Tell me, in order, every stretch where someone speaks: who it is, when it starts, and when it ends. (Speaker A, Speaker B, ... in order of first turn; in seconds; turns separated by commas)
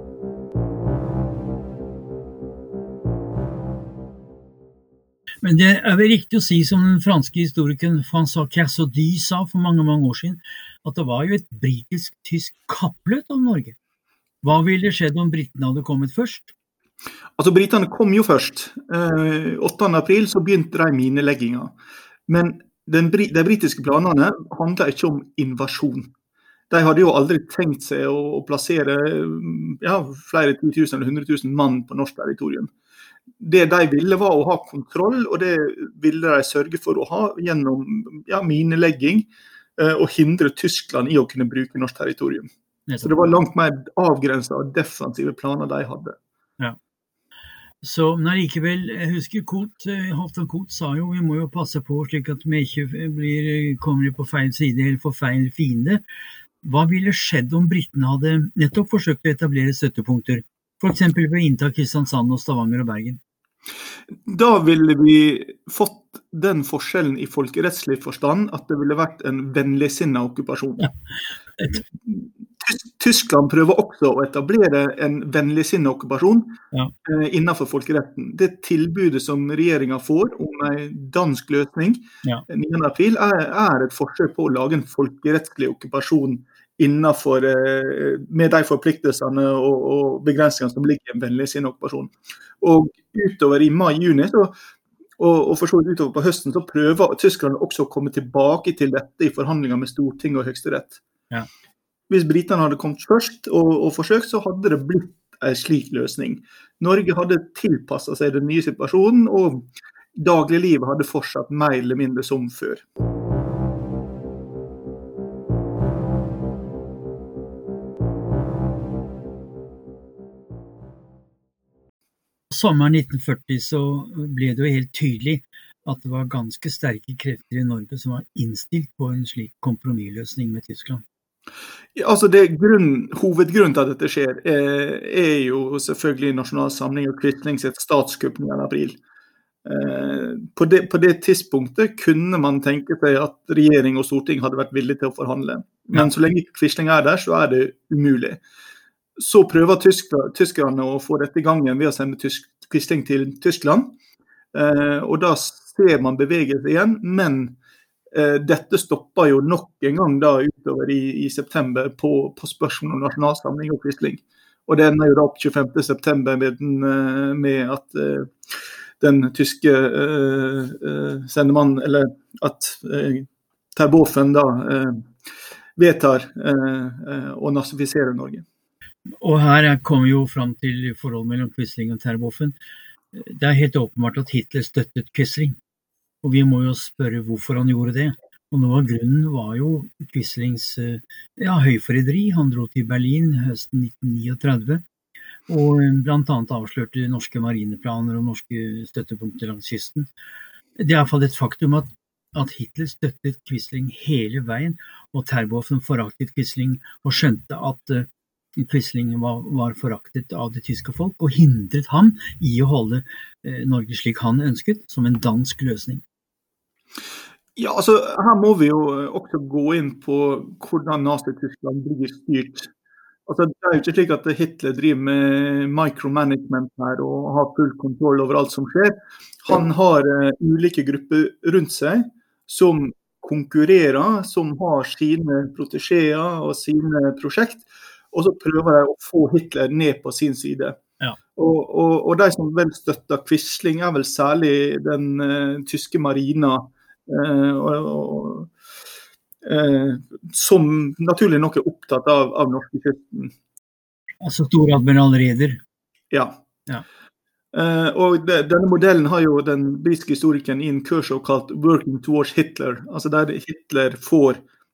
Speaker A: 5.4-13.8, Speaker A: 14.4-16.5, Speaker B: 17.4-21.7, Speaker B: 22.3-26.1, Speaker B: 26.7-32.7, Speaker B: 33.4-42.5, Speaker B: 43.0-46.2, Speaker A: 47.8-56.0, Speaker A: 56.6-63.2, Speaker B: 64.3-70.9, Speaker B: 72.0-94.5, Speaker B: 95.2-101.0, Speaker B: 102.1-112.8, Speaker A: 122.5-131.0, Speaker B: 131.9-139.0, Speaker B: 139.6-148.4, Speaker B: 149.2-153.9, Speaker B: 154.5-157.6, Speaker B: 158.1-168.3, Speaker B: 169.0-175.1, Speaker B: 175.8-178.4, Speaker A: 179.2-182.6, Speaker A: 183.1-185.6, Speaker A: 186.2-194.8, Speaker A: 195.5-200.1, Speaker A: 200.8-216.0, Speaker B: 217.6-222.7, Speaker B: 223.3-240.8, Speaker B: 241.3-248.5, Speaker B: 249.4-253.3, Speaker A: 254.2-255.6, Speaker B: 256.1-256.4, Speaker B: 257.5-264.4